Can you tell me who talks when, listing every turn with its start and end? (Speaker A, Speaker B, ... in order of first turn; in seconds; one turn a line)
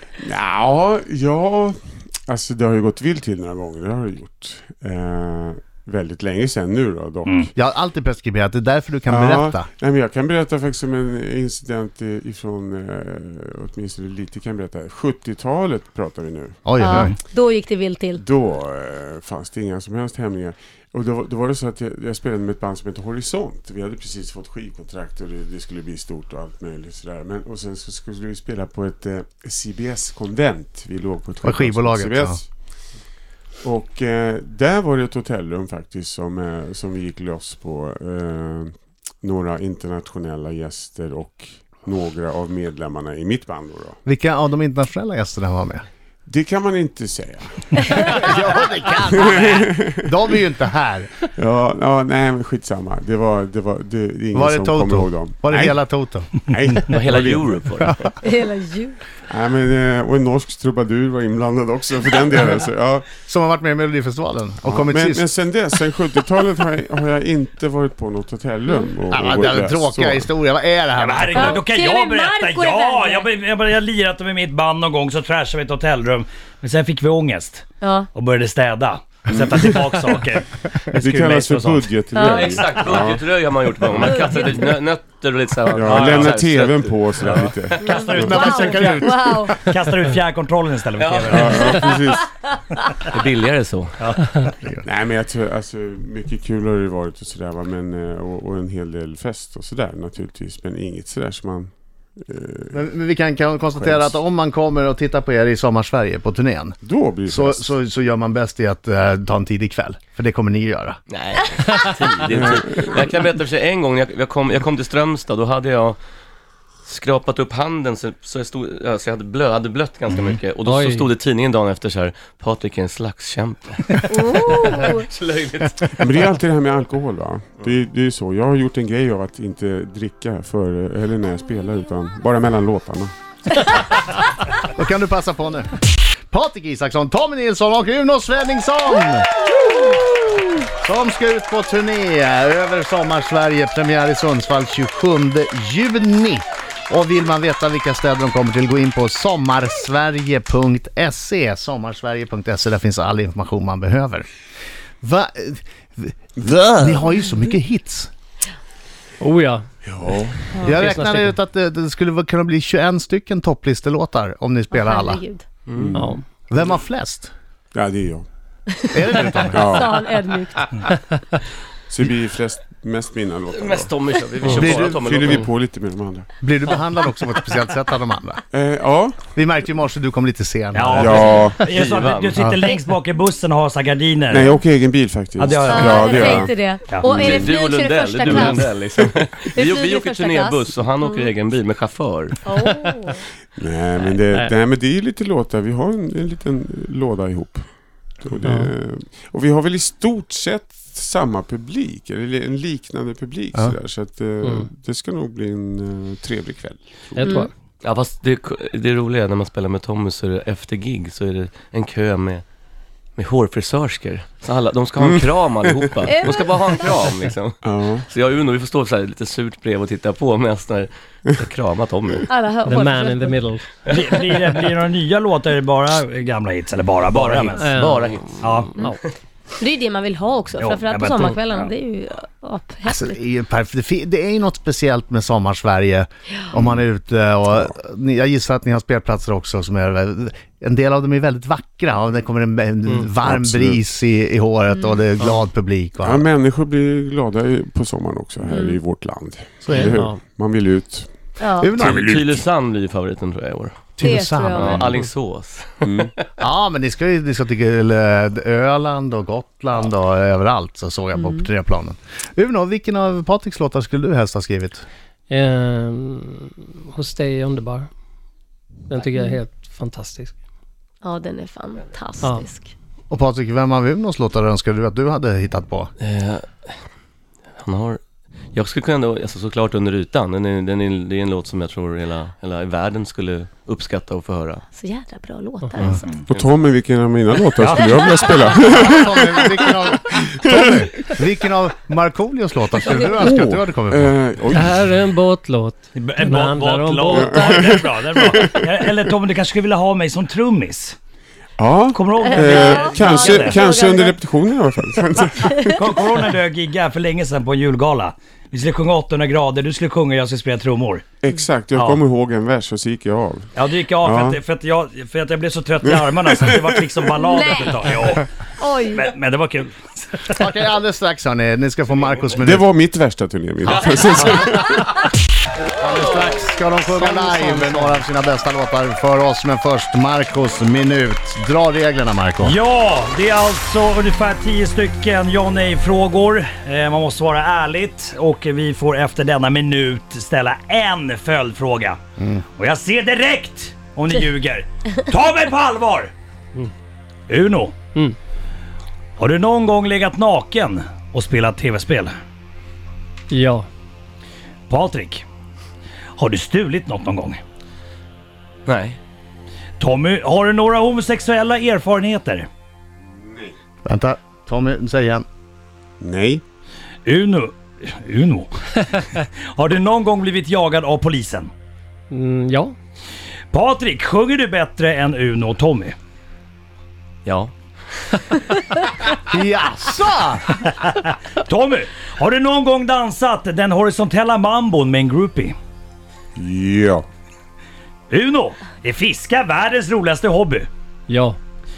Speaker A: 0.2-7.5
Speaker B: 7.2-7.5
Speaker C: 7.5-9.7
Speaker A: 9.1-16.8
Speaker C: 16.7-17.2
Speaker D: 16.8-18.2
Speaker B: 16.9-17.2
Speaker A: 18.1-32.5
Speaker C: 31.4-32.4
Speaker A: 33.6-44.0
Speaker C: 44.0-45.8
Speaker A: 46.3-48.4
Speaker C: 47.9-51.1
Speaker A: 49.2-50.1
Speaker A: 51.4-55.8
Speaker C: 54.3-56.3
Speaker A: 56.5-57.6
Speaker E: 56.9-58.1
Speaker D: 58.2-59.0
Speaker A: 59.3-63.1
Speaker C: 63.3-65.3
Speaker A: 64.6-70.3
Speaker C: 69.1-71.6
Speaker B: 71.0-82.8
Speaker D: 71.3-73.3
Speaker D: 77.8-78.1
Speaker A: 81.0-83.2
Speaker D: 82.1-82.5
Speaker E: 82.2-87.5
Speaker D: 84.0-84.5
Speaker A: 85.7-88.3
Speaker B: 85.8-86.4
Speaker B: 87.3-92.0
Speaker D: 87.9-89.5
Speaker C: 88.1-89.5
Speaker E: 91.0-91.8
Speaker A: 91.3-92.3
Speaker E: 93.1-94.1
Speaker B: 94.0-94.5
Speaker A: 94.8-102.8
Speaker C: 102.7-111.0
Speaker A: 103.7-104.2
Speaker A: 106.8-107.7
Speaker E: 111.1-116.0
Speaker A: 112.3-113.0
Speaker E: 116.8-126.3
Speaker F: 120.6-121.1
Speaker D: 124.1-125.1
Speaker A: 126.0-133.7
Speaker C: 134.6-154.3
Speaker C: 155.0-158.1
Speaker F: 159.2-159.6
Speaker A: 159.8-160.4
Speaker D: 160.6-160.8
Speaker C: 160.6-165.2
Speaker F: 160.7-161.4
Speaker D: 164.7-165.4
Speaker E: 165.7-165.9
Speaker A: 165.7-166.2
Speaker F: 165.9-166.2
Speaker C: 166.5-167.3
Speaker A: 167.7-168.3
Speaker C: 168.9-169.8
Speaker A: 169.5-170.3
Speaker D: 169.6-170.7
Speaker A: 171.9-176.3
Speaker E: 173.5-175.5
Speaker C: 174.5-175.1
Speaker C: 176.4-178.4
Speaker A: 178.5-179.2
Speaker C: 179.3-181.4
Speaker B: 180.7-184.5
Speaker A: 181.0-181.6
Speaker E: 181.6-182.4
Speaker A: 184.3-187.5
Speaker B: 185.4-187.5
Speaker D: 185.5-191.3
Speaker E: 187.1-192.4
Speaker B: 188.3-188.6
Speaker D: 192.4-193.2
Speaker F: 192.6-193.1
Speaker A: 193.6-207.4
Speaker F: 198.4-198.7
Speaker F: 204.4-204.7
Speaker F: 207.2-207.5
Speaker D: 207.2-207.5
Speaker E: 207.8-212.4
Speaker E: 213.2-222.3
Speaker A: 215.0-216.1
Speaker D: 216.0-216.8
Speaker A: 217.6-218.1
Speaker D: 222.3-223.4
Speaker F: 222.7-223.7
Speaker B: 223.9-227.7
Speaker E: 223.9-224.2
Speaker E: 227.1-229.1
Speaker F: 227.6-228.2
Speaker B: 228.4-228.8
Speaker D: 229.6-233.2
Speaker B: 230.6-231.4
Speaker C: 232.9-246.3
Speaker A: 243.2-243.8
Speaker D: 244.7-245.0
Speaker A: 246.0-251.1
Speaker D: 248.4-248.8
Speaker C: 249.6-249.9
Speaker F: 249.7-250.2
Speaker D: 251.4-251.7
Speaker C: 251.6-252.4
Speaker E: 251.8-253.9
Speaker A: 251.9-252.2
Speaker C: 254.0-254.9
Speaker D: 254.0-254.8
Speaker E: 254.5-256.2
Speaker A: 255.8-256.1
Speaker C: 256.4-264.8
Speaker D: 261.1-261.5
Speaker F: 265.3-267.9
Speaker F: 268.9-270.4
Speaker D: 269.1-269.4
Speaker D: 271.0-272.7
Speaker F: 272.2-272.5
Speaker C: 273.1-275.9
Speaker E: 276.0-276.7
Speaker E: 277.6-278.0
Speaker E: 278.5-284.6
Speaker D: 284.8-286.2
Speaker A: 286.3-291.1
Speaker B: 287.6-288.4
Speaker D: 288.0-288.3
Speaker C: 288.5-294.1
Speaker A: 292.9-295.0
Speaker F: 294.5-297.6
Speaker B: 295.9-300.9
Speaker A: 297.1-298.9
Speaker A: 301.6-305.8
Speaker B: 301.9-303.6
Speaker D: 302.1-304.2
Speaker D: 305.1-305.8
Speaker B: 305.8-311.0
Speaker A: 311.2-314.4
Speaker B: 311.7-312.0
Speaker B: 313.5-318.2
Speaker A: 315.9-316.8
Speaker D: 317.2-319.1
Speaker B: 318.9-320.4
Speaker C: 320.4-322.7
Speaker A: 322.4-324.8
Speaker C: 323.7-324.7
Speaker E: 323.7-324.1
Speaker C: 325.8-332.6
Speaker E: 325.9-326.3
Speaker F: 326.9-327.9
Speaker B: 332.4-342.0
Speaker C: 342.2-342.4
Speaker B: 342.6-346.1
Speaker B: 347.3-347.8
Speaker B: 349.2-352.1
Speaker F: 353.3-353.6
Speaker B: 354.7-355.2
Speaker B: 356.2-357.4
Speaker E: 358.7-359.0
Speaker B: 359.8-362.5
Speaker A: 363.2-363.5
Speaker C: 363.9-365.2
Speaker A: 366.0-366.4
Speaker B: 367.0-371.5
Speaker F: 372.1-372.8
Speaker B: 373.5-375.9
Speaker E: 377.2-377.5
Speaker C: 379.3-380.5
Speaker B: 380.6-385.5
Speaker A: 386.4-387.0
Speaker B: 388.1-390.7
Speaker F: 391.1-391.4